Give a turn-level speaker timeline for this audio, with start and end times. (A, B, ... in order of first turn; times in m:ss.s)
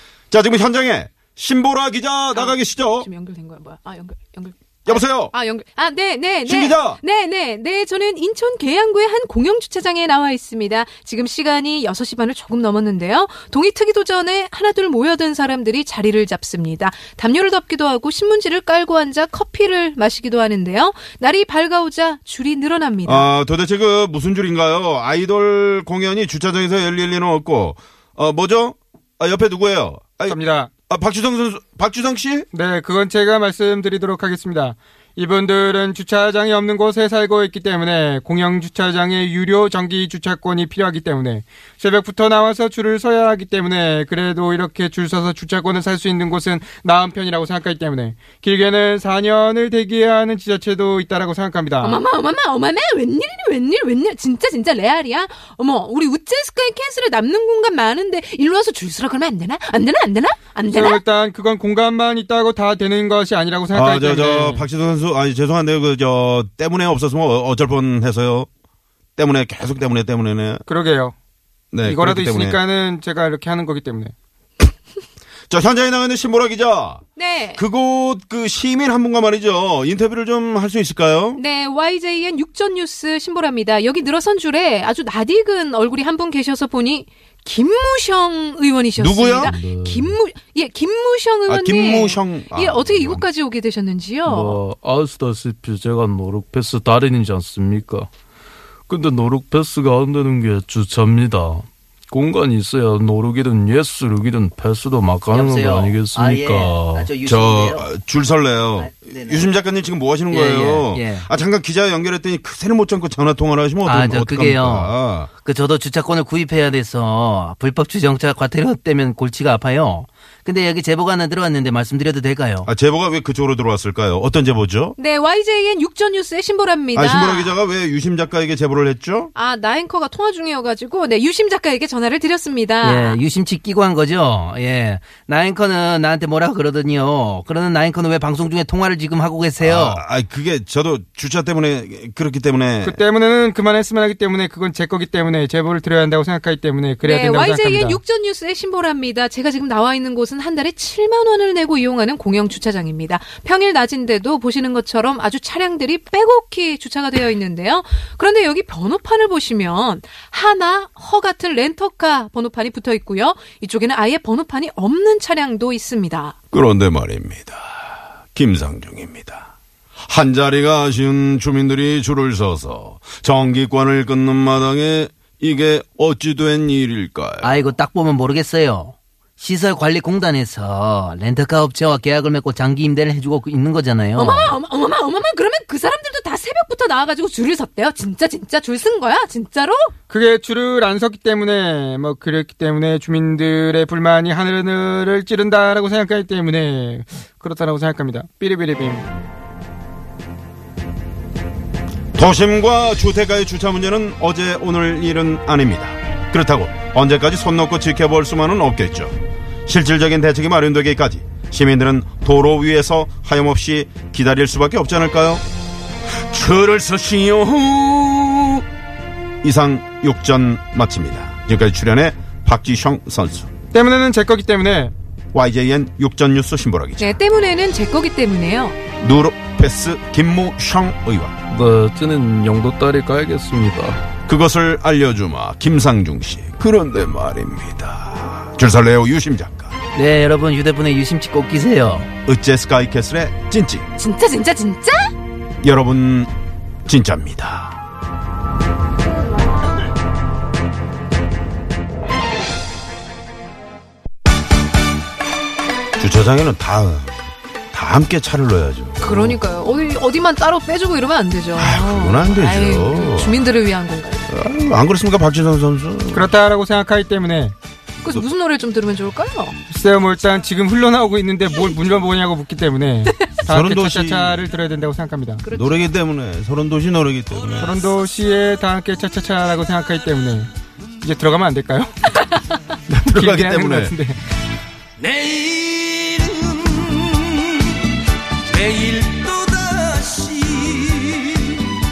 0:00.3-0:03.1 A
0:02.3-0:23.3 B
0:04.9-0:05.3 A
0:06.4-0:07.0 A
0:23.0-0:32.5 A
0:30.3-0:30.7 C
0:32.5-0:52.0 C
0:51.8-1:01.0 B
1:00.7-1:04.7 C
1:03.7-1:08.5 A
1:09.2-1:10.6 A
1:10.7-1:11.2 C
1:11.7-1:12.6 A
1:11.9-1:14.1 C
1:15.5-1:17.0 A
1:17.2-1:17.6 B
1:17.6-1:21.4 A
1:21.4-1:34.6 B
1:29.0-1:29.6 A
1:29.4-1:30.2 D
1:31.5-1:33.2 A
1:34.2-1:38.1 D
1:38.9-1:47.1 D
1:45.3-1:48.0 E
1:47.2-1:55.3 A
1:48.8-1:49.5 E
1:50.3-1:51.3 E
1:53.8-2:02.7 E
2:02.6-2:05.0 A
2:05.0-2:07.6 B
2:07.0-2:09.3 A
2:09.4-2:13.2 B
2:12.8-2:20.0 E
2:19.6-2:23.0 A
2:22.8-2:28.0 C
2:27.0-2:46.4 B
2:46.5-2:49.5 A
2:50.0-2:57.6 A
2:57.4-3:04.6 E
3:04.2-3:09.9 B
3:10.1-3:19.1 C
3:22.2-3:29.2 A
3:29.7-3:35.4 A
3:36.2-3:38.6 A
3:39.4-3:43.5 A
3:43.7-3:44.9 C
3:45.3-3:47.2 A
3:47.0-3:48.8 B
3:49.0-3:51.4 A
3:51.5-3:54.0 D
3:54.3-3:59.8 A
4:00.0-4:02.1 E
4:02.2-4:03.8 A
4:04.0-4:05.1 B
4:05.6-4:06.3 A
4:06.9-4:07.8 A
4:16.0-4:19.4 A
4:19.0-4:24.3 B
4:21.6-4:23.4 A
4:24.3-4:26.3 A
4:26.1-4:27.5 C
4:28.0-4:29.6 B
4:29.7-4:35.4 C
4:33.4-4:34.4 A
4:35.4-4:35.8 B
4:35.5-4:37.8 A
4:37.6-4:40.5 C
4:41.0-4:41.9 C
4:42.9-4:43.9 A
4:43.1-4:44.2 C
4:45.0-4:46.7 D
4:48.6-4:51.5 D